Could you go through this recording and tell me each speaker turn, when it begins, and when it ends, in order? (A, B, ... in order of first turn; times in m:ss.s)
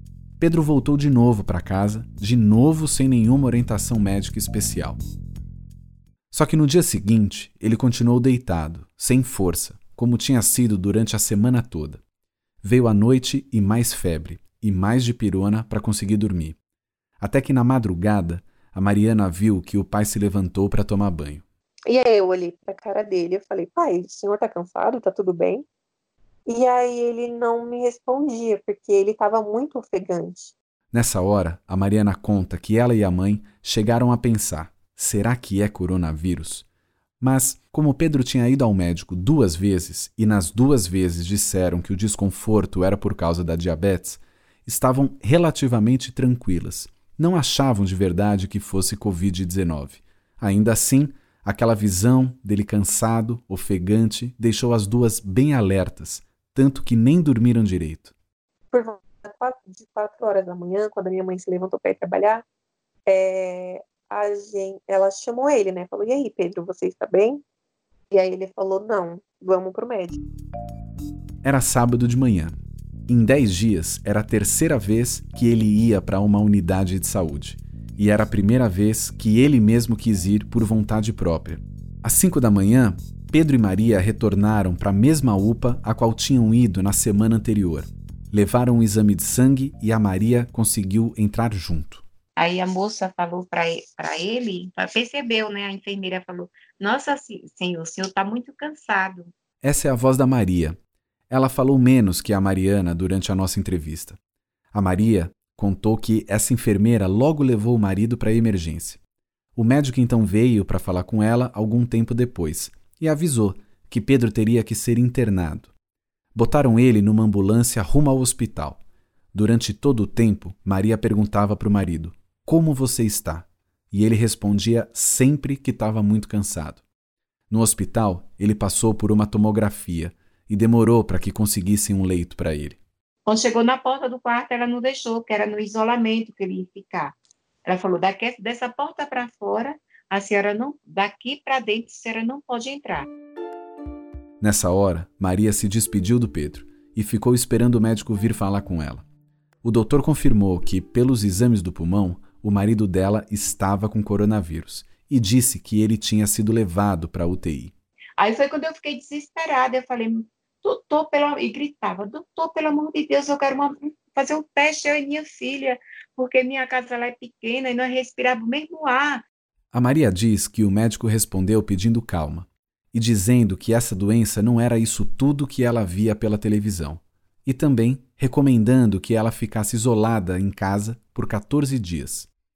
0:00.4-0:05.0 A
0:06.3-0:12.0 A
0:12.6-0:16.6 A
0:17.2-0:21.4 A
0:21.9-0:25.6 B
0:26.4-0:30.5 B
0:30.9-0:36.7 A
0:37.2-0:58.1 A
0:58.7-1:02.4 B
1:03.0-1:07.4 B
1:08.1-1:10.2 B
1:11.4-1:12.5 A
1:13.1-1:32.0 A
1:32.4-1:39.3 C
1:39.6-1:40.8 A
1:41.3-1:44.2 A
1:44.7-1:49.0 A
1:49.6-1:55.7 A
1:56.3-1:58.8 A
1:59.3-2:06.8 A
2:07.5-2:12.8 A
2:13.2-2:23.1 C
2:24.4-2:29.0 A
2:29.6-2:37.7 A
2:38.2-2:49.2 C
2:49.7-3:02.3 A